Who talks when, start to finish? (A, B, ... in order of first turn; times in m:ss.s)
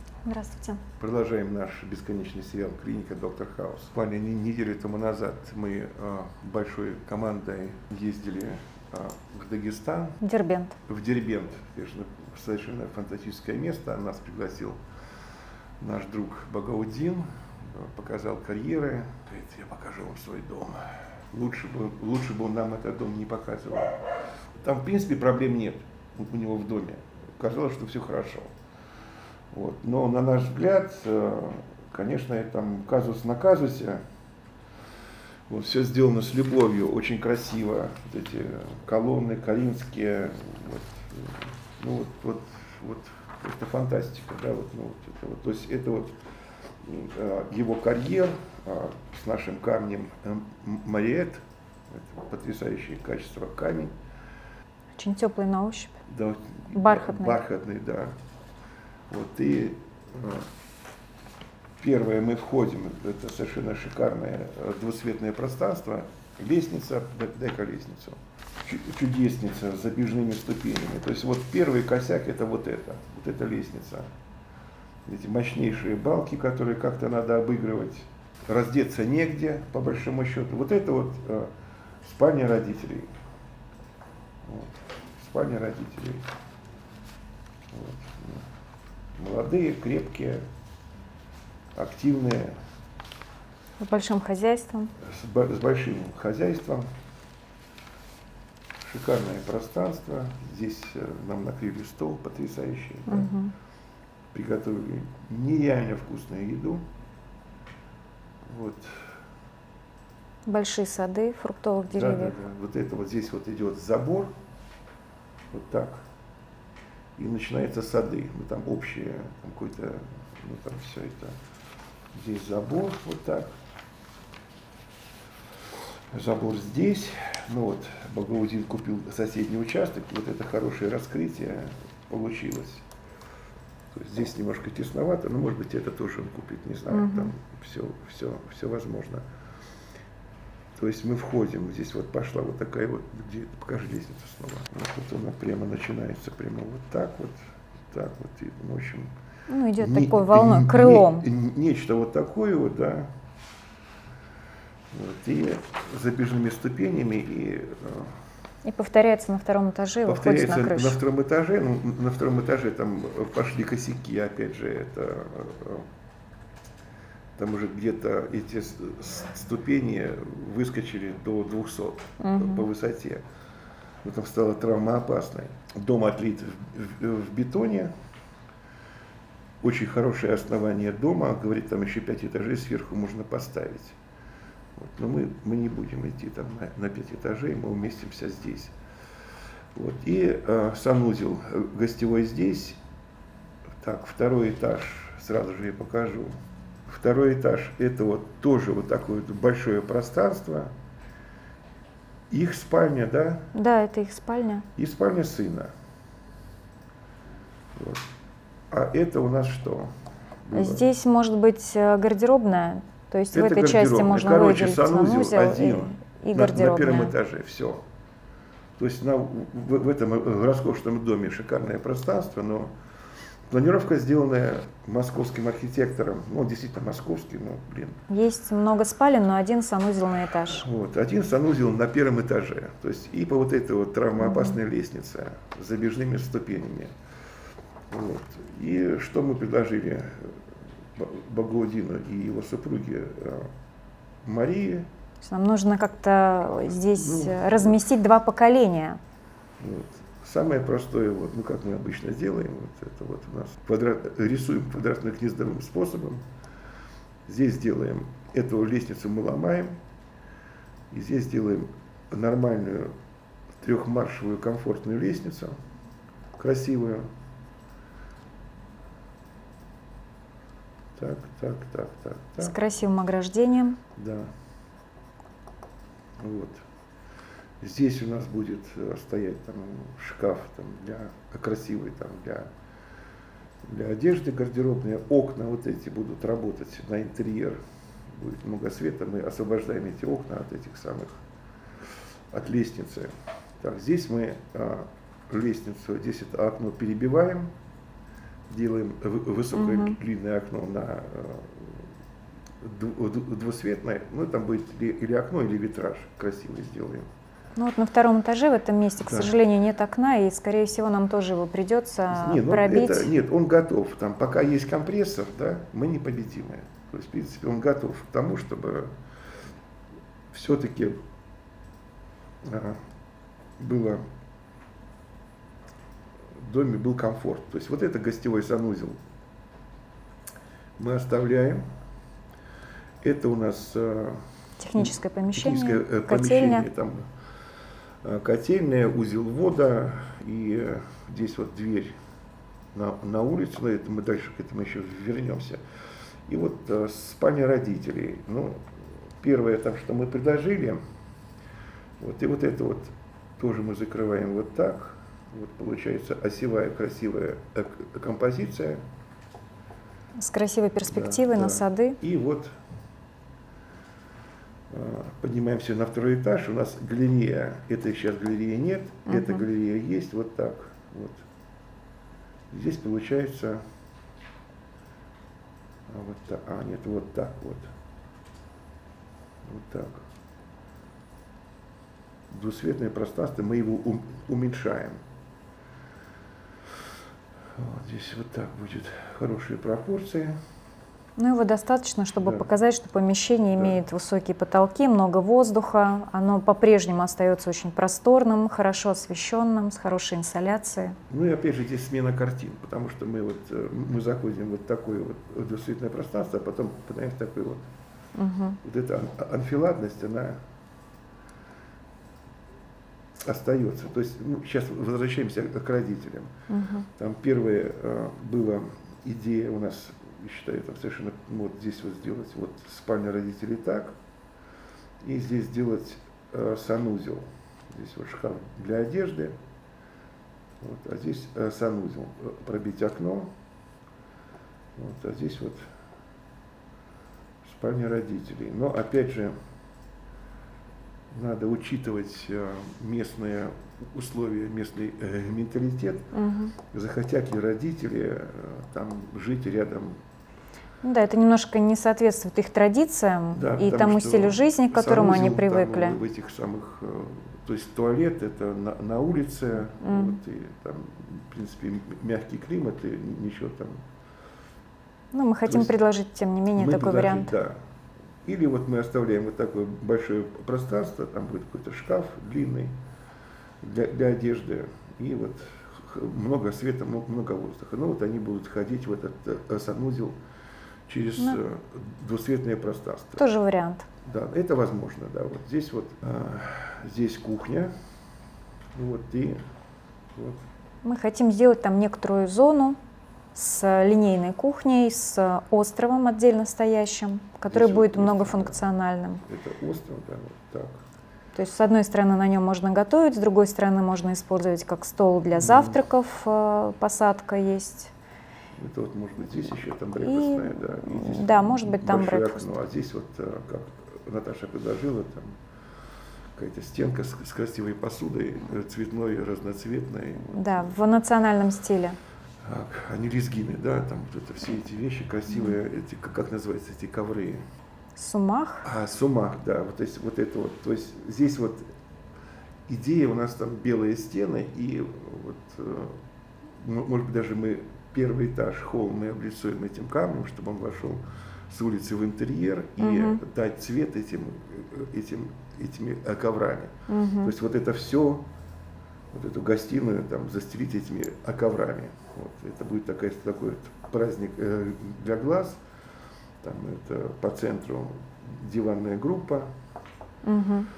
0:00.2-0:00.8 A
0:01.0-0:10.2 B
0:10.2-0:10.8 A
0:10.8-0:14.8 B
0:15.8-0:28.5 B
0:29.5-0:34.0 B
0:35.5-0:46.2 B
0:46.8-0:53.9 B
0:55.0-0:55.9 A
0:56.1-0:58.1 B
0:56.7-0:57.4 A
0:59.1-1:00.5 B
1:01.8-1:14.1 B
1:15.0-1:21.5 B
1:22.0-1:23.1 B
1:24.4-1:26.2 B
1:27.7-1:28.4 B
1:29.2-1:30.4 B
1:31.7-1:32.6 B
1:33.8-1:34.9 A
1:35.0-1:36.9 B
1:38.8-1:43.3 B
1:43.1-1:43.5 A
1:44.3-1:46.8 B
1:48.4-1:49.1 B
1:50.4-1:52.4 A
1:51.9-1:54.3 B
1:55.5-1:56.0 B
1:57.2-2:01.4 B
2:02.1-2:03.5 B
2:06.1-2:12.8 B
2:13.9-2:19.2 B
2:16.9-2:17.3 A
2:20.7-2:27.4 B
2:27.9-2:29.1 B
2:29.5-2:31.3 A
2:29.8-2:33.1 B
2:34.9-2:38.1 B
2:38.6-2:41.0 A
2:40.0-2:45.8 B
2:47.4-2:53.2 B
2:52.2-2:52.6 A
2:54.0-2:57.9 B
2:59.6-3:04.0 B
3:04.8-3:08.7 B
3:09.7-3:12.8 B
3:13.8-3:16.3 B
3:16.9-3:20.7 B
3:22.3-3:23.5 B
3:23.5-3:24.7 A
3:24.8-3:25.7 B
3:27.8-3:28.0 B
3:28.7-3:29.9 B
3:30.4-3:30.8 B
3:30.5-3:37.1 A
3:33.3-3:37.8 B
3:38.8-3:42.7 B
3:43.5-3:48.0 B
3:48.1-3:50.6 A
3:50.4-3:56.9 B
3:54.2-3:54.6 A
3:57.9-4:00.4 B
4:00.9-4:03.5 B
4:04.2-4:04.9 B
4:05.2-4:09.0 A
4:06.6-4:07.8 B
4:09.6-4:16.2 B
4:17.2-4:19.7 B
4:20.9-4:22.9 B
4:23.6-4:25.6 B
4:26.4-4:27.1 B
4:31.0-4:32.6 B
4:32.4-4:33.8 A
4:34.0-4:34.3 B
4:36.2-4:36.6 B
4:37.6-4:42.5 B
4:43.6-4:51.1 B
4:52.3-4:57.5 B
4:58.5-5:01.8 B
4:59.5-5:00.0 A
5:02.6-5:07.1 B
5:07.6-5:13.1 A
5:09.0-5:09.3 B
5:12.1-5:18.9 B
5:20.3-5:21.0 B
5:22.4-5:22.8 B
5:23.6-5:24.0 B
5:26.4-5:29.0 B
5:30.8-5:31.6 B
5:33.0-5:34.2 B
5:34.6-5:36.6 A
5:34.7-5:37.0 B
5:38.0-5:42.0 B
5:42.7-5:45.6 B
5:46.3-5:48.6 B
5:49.2-5:50.8 B
5:52.0-5:58.8 B
6:00.2-6:02.0 A
6:00.8-6:02.5 B
6:04.7-6:11.2 B
6:09.1-6:09.4 A
6:12.5-6:13.6 B
6:15.9-6:17.7 B
6:19.4-6:20.0 B
6:22.3-6:25.0 B
6:27.6-6:30.4 B
6:31.2-6:41.0 A
6:32.2-6:32.4 B
6:33.6-6:33.8 B
6:41.1-6:47.7 B
6:48.2-6:48.6 A
6:48.6-6:50.4 B
6:53.2-6:56.3 B
6:56.5-6:56.8 A
6:56.9-7:03.9 B
7:05.0-7:09.4 B
7:10.6-7:13.3 B
7:14.8-7:15.6 B
7:17.4-7:19.3 B
7:21.1-7:26.1 B
7:26.1-7:26.5 A
7:26.7-7:30.0 B
7:30.8-7:36.0 A
7:33.3-7:43.8 B
7:39.8-7:40.2 A
7:45.1-7:47.3 A
7:45.4-7:45.8 B
7:46.5-7:47.6 B
7:48.2-7:52.7 B
7:53.6-8:00.2 B
8:00.9-8:03.2 B
8:03.2-8:03.8 A
8:04.0-8:07.7 B
8:08.7-8:09.4 B
8:10.1-8:10.4 B
8:10.8-8:12.8 A
8:13.3-8:19.2 A
8:17.5-8:18.6 B
8:19.2-8:20.8 B
8:21.3-8:27.9 A
8:25.4-8:25.8 B
8:28.6-8:35.4 B
8:30.0-8:32.5 A
8:36.3-8:40.8 B
8:40.3-8:42.0 A
8:42.4-8:47.4 B
8:48.0-8:48.6 A
8:48.6-8:51.6 B
8:52.7-8:56.0 B
8:56.6-9:08.2 B
9:02.8-9:03.2 A
9:06.9-9:07.3 A
9:09.1-9:15.6 B
9:16.4-9:19.5 B
9:20.2-9:20.7 A